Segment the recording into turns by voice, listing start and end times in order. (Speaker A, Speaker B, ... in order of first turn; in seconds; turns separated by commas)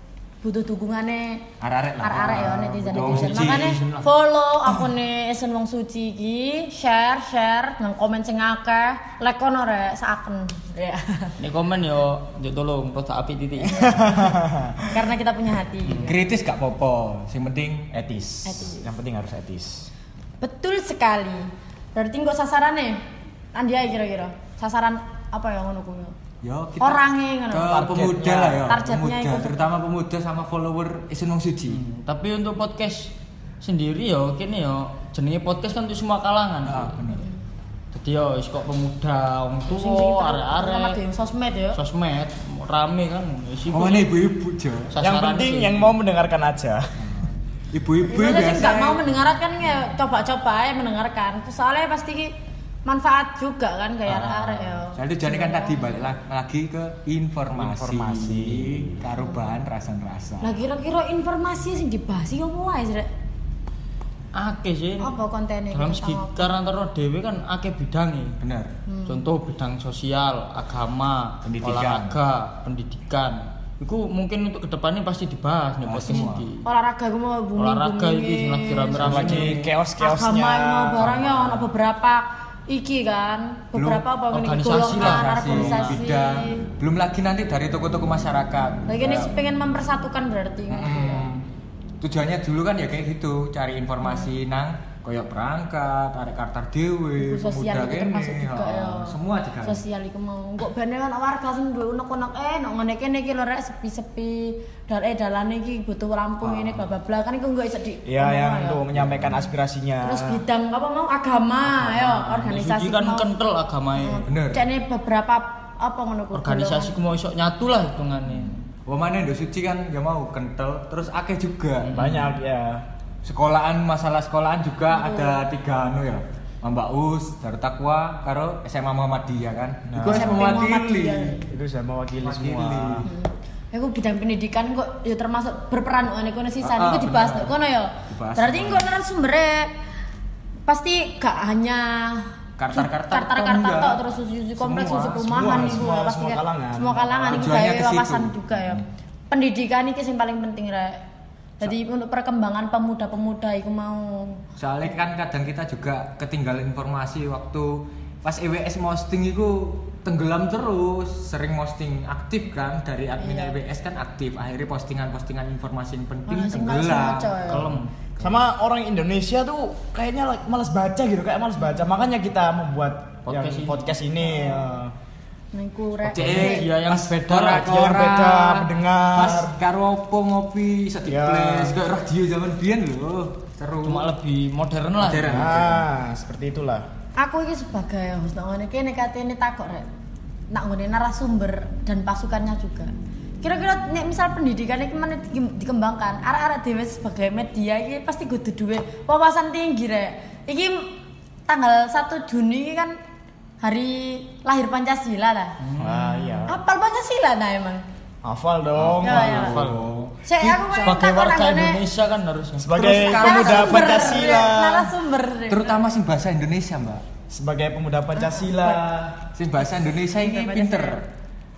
Speaker A: 0.4-11.4, Speaker B: 1.6-3.8, Speaker C: 2.9-4.0, Speaker C: 11.4-14.1, Speaker D: 13.6-15.0, Speaker A: 13.7-14.4, Speaker A: 14.9-16.4, Speaker B: 16.0-17.9, Speaker D: 17.9-19.9, Speaker A: 18.4-18.9, Speaker A: 20.4-23.0, Speaker A: 23.5-26.1, Speaker B: 26.4-31.8, Speaker A: 26.8-27.9, Speaker D: 27.7-28.6, Speaker A: 28.6-29.7, Speaker C: 31.7-37.0, Speaker B: 36.6-37.3, Speaker C: 37.9-41.0, Speaker A: 39.7-41.8, Speaker C: 41.7-44.1, Speaker B: 43.7-44.9, Speaker C: 44.9-45.9, Speaker D: 45.0-47.1, Speaker B: 47.0-49.2, Speaker A: 48.1-52.3, Speaker A: 52.8-56.1, Speaker B: 54.1-60.6, Speaker D: 57.5-59.0, Speaker A: 60.4-63.1, Speaker C: 64.3-65.2, Speaker A: 65.0-66.5, Speaker C: 65.7-68.4, Speaker B: 68.4-68.7, Speaker A: 68.9-69.2, Speaker C: 69.1-76.6, Speaker B: 71.4-72.2, Speaker B: 75.8-76.5, Speaker A: 76.6-79.4, Speaker C: 77.6-79.7, Speaker D: 79.0-81.1, Speaker A: 80.0-86.7, Speaker B: 81.0-81.7, Speaker B: 83.7-84.0, Speaker C: 84.3-86.0, Speaker B: 84.7-89.3, Speaker A: 88.9-91.3, Speaker B: 90.7-91.4, Speaker B: 92.0-99.8, Speaker A: 94.0-94.3, Speaker A: 97.2-108.8, Speaker D: 108.0-110.4, Speaker B: 108.9-109.4, Speaker A: 110.0-113.3, Speaker C: 111.7-114.2, Speaker A: 114.0-117.0, Speaker B: 114.2-114.7, Speaker C: 116.3-118.6, Speaker B: 118.4-122.0, Speaker C: 121.8-122.4, Speaker D: 121.9-122.8, Speaker B: 123.2-131.4, Speaker A: 124.9-125.4, Speaker D: 129.9-130.6, Speaker A: 130.0-131.5, Speaker D: 131.4-133.1, Speaker B: 132.2-133.1, Speaker A: 133.0-139.7, Speaker B: 136.6-138.9, Speaker A: 140.7-151.0, Speaker B: 142.6-144.0, Speaker B: 144.6-145.7, Speaker D: 145.1-147.7, Speaker B: 147.3-148.8, Speaker A: 151.6-154.4, Speaker B: 154.6-167.6, Speaker A: 163.2-163.6, Speaker A: 166.2-167.7, Speaker C: 167.5-168.1, Speaker D: 168.2-174.9, Speaker C: 173.2-173.9, Speaker A: 174.2-174.8, Speaker A: 175.5-176.7, Speaker B: 176.1-184.1, Speaker C: 176.1-177.8, Speaker D: 177.4-179.6, Speaker D: 181.1-181.8, Speaker C: 183.8-185.6, Speaker B: 185.0-185.8, Speaker D: 185.3-186.9, Speaker A: 187.2-189.9, Speaker A: 190.5-203.0, Speaker A: 203.6-205.6, Speaker C: 205.6-206.4, Speaker D: 205.8-206.6, Speaker A: 206.4-207.8, Speaker D: 208.2-209.4, Speaker B: 208.8-211.0, Speaker A: 209.0-209.6, Speaker C: 209.2-209.9, Speaker A: 210.2-211.8, Speaker C: 210.8-212.9, Speaker D: 212.6-214.9, Speaker B: 212.8-214.5, Speaker A: 212.8-215.8, Speaker B: 215.5-217.0, Speaker D: 217.3-219.2, Speaker A: 218.2-218.8, Speaker B: 219.3-221.1, Speaker A: 219.9-221.0